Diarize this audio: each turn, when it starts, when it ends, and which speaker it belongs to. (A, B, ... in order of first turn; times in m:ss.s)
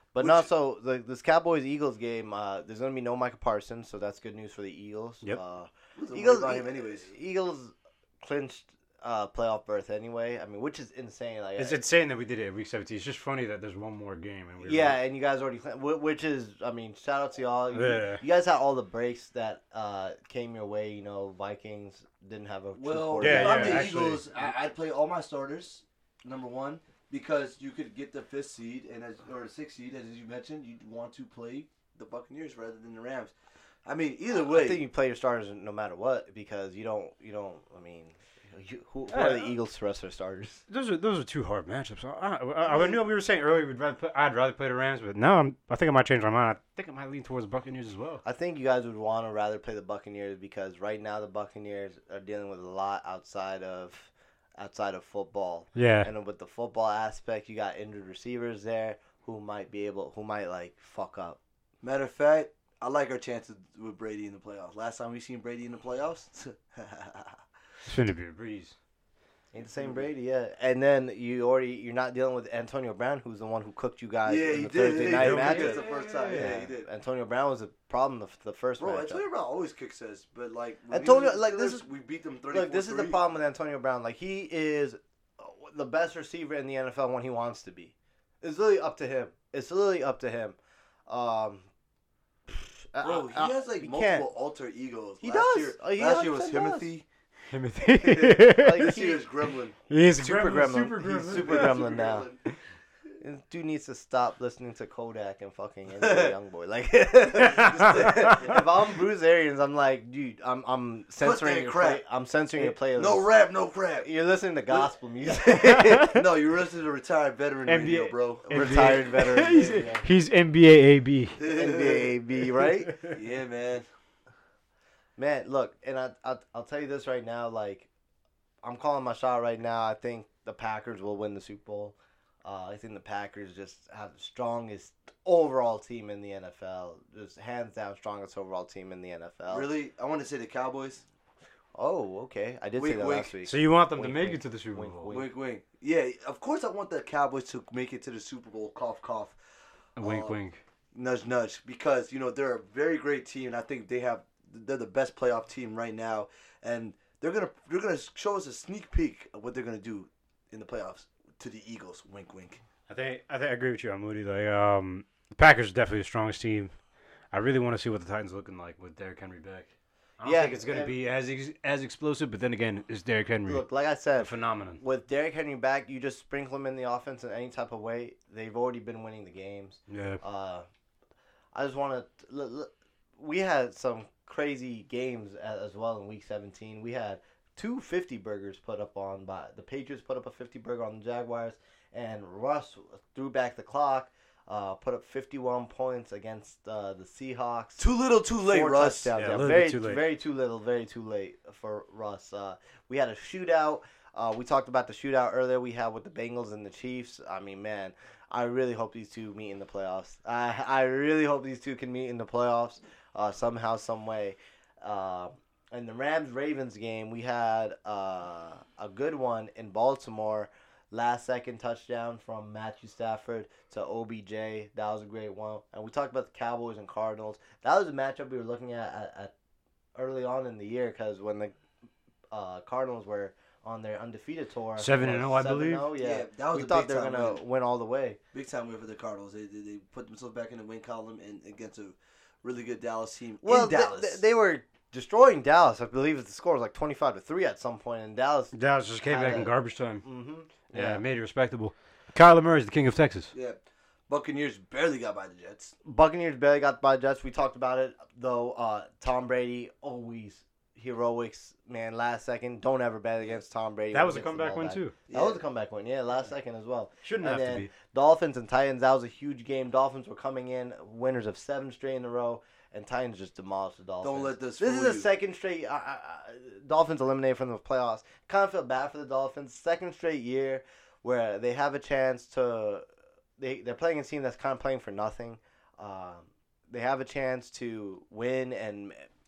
0:00.2-0:11.8 A
0:00.2-0:00.5 B
0:06.0-0:07.1 B
0:11.6-0:15.0 C
0:14.6-0:24.1 A
0:17.7-0:18.2 C
0:22.7-0:33.3 B
0:23.2-0:24.3 C
0:33.9-0:34.8 B
0:34.4-0:40.6 A
0:39.1-0:39.5 C
0:40.7-0:48.2 C
0:48.2-1:01.4 A
0:55.8-0:56.1 C
1:01.8-1:07.4 B
1:07.9-1:08.8 C
1:09.5-1:19.2 A
1:09.6-1:10.0 B
1:14.2-1:16.9 B
1:15.0-1:16.6 C
1:18.8-1:23.2 B
1:20.9-1:21.8 A
1:22.5-1:31.7 A
1:32.5-1:34.3 A
1:33.0-1:37.0 B
1:35.2-1:36.9 A
1:37.5-1:39.0 C
1:38.0-1:39.8 B
1:38.5-1:39.3 A
1:39.9-1:41.8 C
1:40.2-1:42.3 A
1:41.1-1:42.4 B
1:43.2-1:53.3 A
1:45.9-1:46.4 B
1:47.4-1:48.4 C
1:47.5-1:48.6 B
1:51.2-1:52.0 B
1:52.6-1:54.1 B
1:54.0-1:56.3 A
1:55.6-1:56.2 C
1:56.1-1:59.0 B
1:57.7-2:01.4 C
1:58.5-2:00.1 A
2:01.4-2:02.2 B
2:01.4-2:02.9 A
2:02.9-2:03.9 B
2:05.2-2:07.9 A
2:08.6-2:19.7 A
2:19.5-2:21.0 B
2:21.8-2:25.3 A
2:22.8-2:23.3 B
2:23.4-2:25.1 C
2:25.1-2:29.4 B
2:30.0-2:30.6 C
2:30.0-2:30.4 B
2:30.9-2:42.6 B
2:42.9-2:46.8 C
2:47.3-2:53.7 C
2:50.2-2:51.0 A
2:53.5-3:00.7 A
2:54.2-2:54.8 C
2:59.9-3:00.2 C
3:01.5-3:17.9 A
3:17.8-3:19.1 B
3:18.4-3:49.3 A
3:19.1-3:20.0 C
3:50.0-3:51.5 A
3:52.3-3:58.2 A
3:54.8-3:55.9 C
3:56.0-3:57.4 B
3:58.3-4:04.2 B
4:03.4-4:11.0 A
4:08.5-4:10.0 C
4:10.7-4:13.3 C
4:13.3-4:13.6 B
4:14.1-4:15.8 B
4:15.8-4:42.8 A
4:23.9-4:25.0 C
4:25.1-4:25.4 B
4:27.0-4:27.7 C
4:34.0-4:35.1 B
4:43.4-4:49.1 A